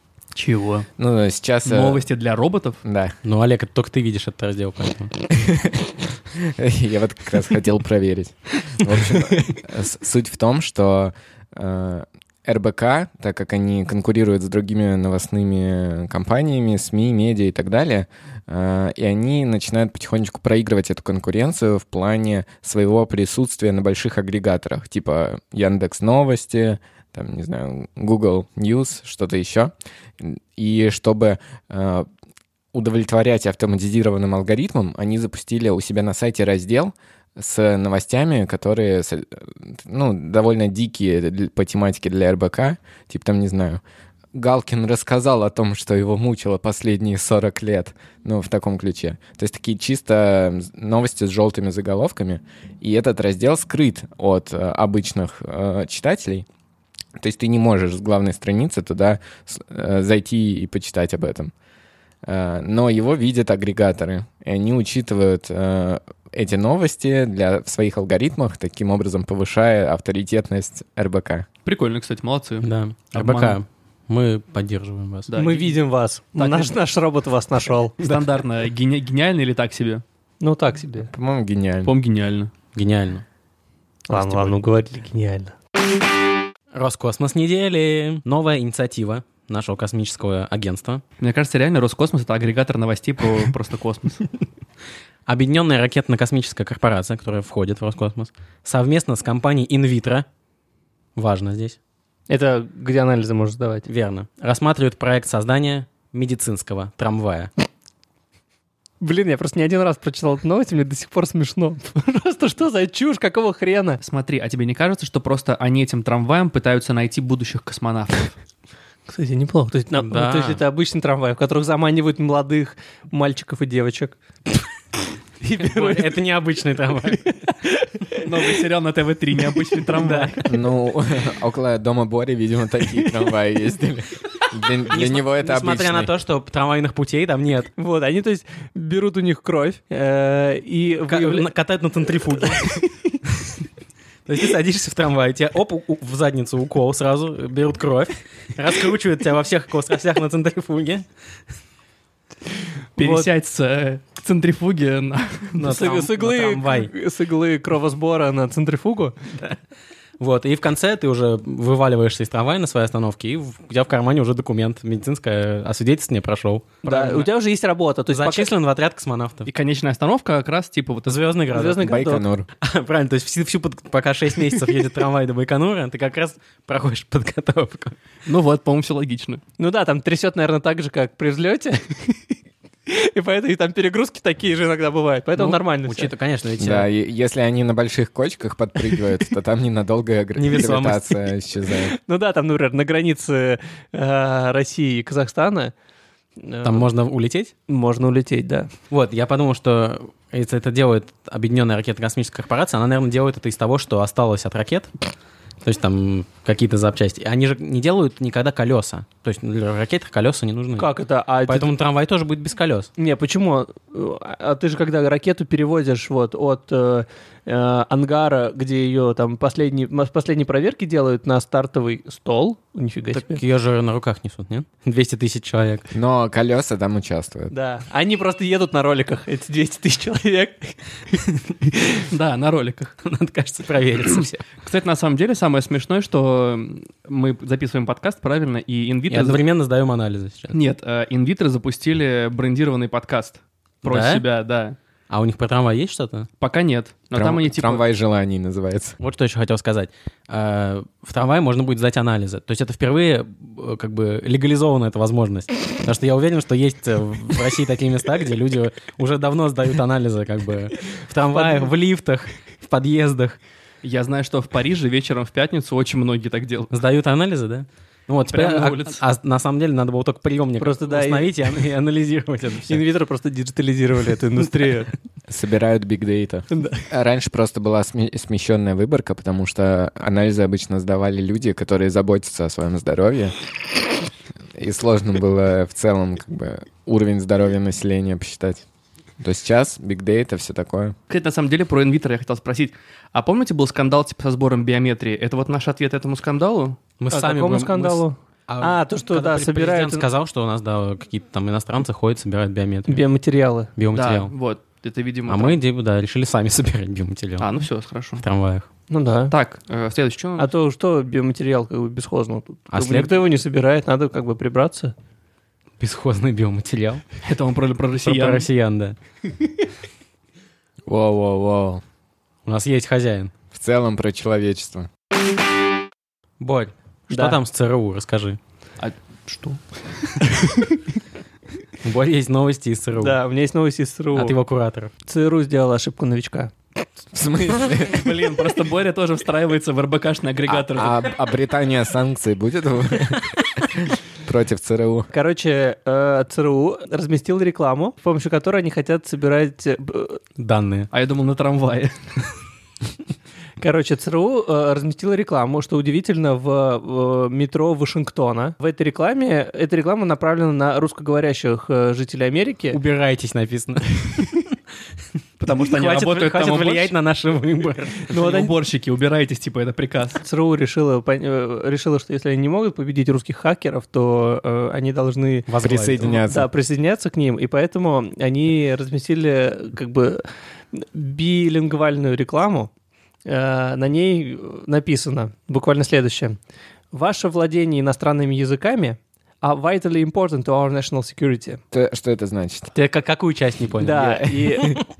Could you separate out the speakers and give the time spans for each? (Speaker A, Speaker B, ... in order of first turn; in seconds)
Speaker A: 0.3-0.9, 1.6-2.8, 71.6-73.6, 75.3-75.8, 76.3-76.7, 78.0-80.0, 81.8-82.5, 91.2-94.3, 114.0-118.4, 128.2-130.4, 152.9-155.6, 169.4-171.3, 178.2-179.4, 232.1-232.9, 234.6-239.4, 240.5-244.8, 246.4-247.8, 263.8-266.7, 268.3-269.0, 291.1-296.8, 303.9-305.6, 307.4-308.2, 309.3-310.5, 317.2-318.5, 328.8-330.4, 337.8-341.1, 350.9-352.2, 365.4-366.9, 368.1-370.2
Speaker B: 1.0-2.0, 2.8-3.1, 5.3-32.1, 32.7-43.8, 44.3-56.5, 57.2-61.5, 62.2-71.5, 81.1-81.9, 130.4-136.1, 171.8-172.5, 186.6-191.9, 225.9-227.5, 247.1-248.9, 275.3-283.3, 284.5-288.6, 289.2-290.9, 320.9-321.8, 323.5-324.9, 337.1-338.4, 340.5-345.1, 375.6-376.5, 391.7-392.7, 394.0-394.8
Speaker C: 3.2-5.1, 72.6-75.3, 82.7-83.2, 86.7-91.0, 95.3-100.2, 101.2-101.8, 103.9-107.5, 119.9-120.6, 125.6-127.4, 134.9-137.7, 141.1-142.9, 144.2-151.1, 155.6-156.9, 160.2-167.3, 168.1-169.5, 171.1-172.0, 172.6-177.9, 185.3-186.9, 190.4-191.2, 196.6-197.5, 198.9-204.9, 205.6-210.9, 211.5-212.9, 223.1-225.9, 233.0-234.4, 239.1-240.6, 243.8-244.2, 245.1-246.3, 249.0-263.4, 266.7-272.8, 297.0-303.0, 303.8-304.3, 305.3-307.5, 308.2-308.7, 312.7-313.1, 315.8-317.0, 318.0-319.0, 322.4-323.3, 326.4-328.4, 331.8-333.2, 334.1-334.9, 350.4-350.9, 362.7-364.5, 365.5-368.1, 375.5-376.2, 392.7-394.8
Speaker D: 75.4-78.0, 80.4-81.1, 84.1-85.5, 102.3-103.8, 109.0-114.0, 119.1-124.2, 125.4-126.2, 127.1-128.5, 129.6-130.4, 137.8-141.5, 142.4-142.8, 153.0-153.3, 155.6-159.2, 166.8-168.5, 171.5-172.2, 179.6-182.3, 182.9-186.1, 191.9-195.7, 196.4-196.9, 197.7-198.7, 210.8-211.7, 213.0-223.4, 227.5-231.8, 261.3-261.7, 270.6-271.5, 272.7-274.9, 276.5-276.9, 297.1-300.1, 302.9-303.7, 308.9-309.3, 310.4-314.9, 327.1-327.4, 333.0-334.4, 335.1-336.5, 345.1-350.2, 353.6-362.8, 368.1-368.5, 370.2-375.5, 376.0-382.7, 383.2-386.4, 386.9-391.6, 393.8-394.8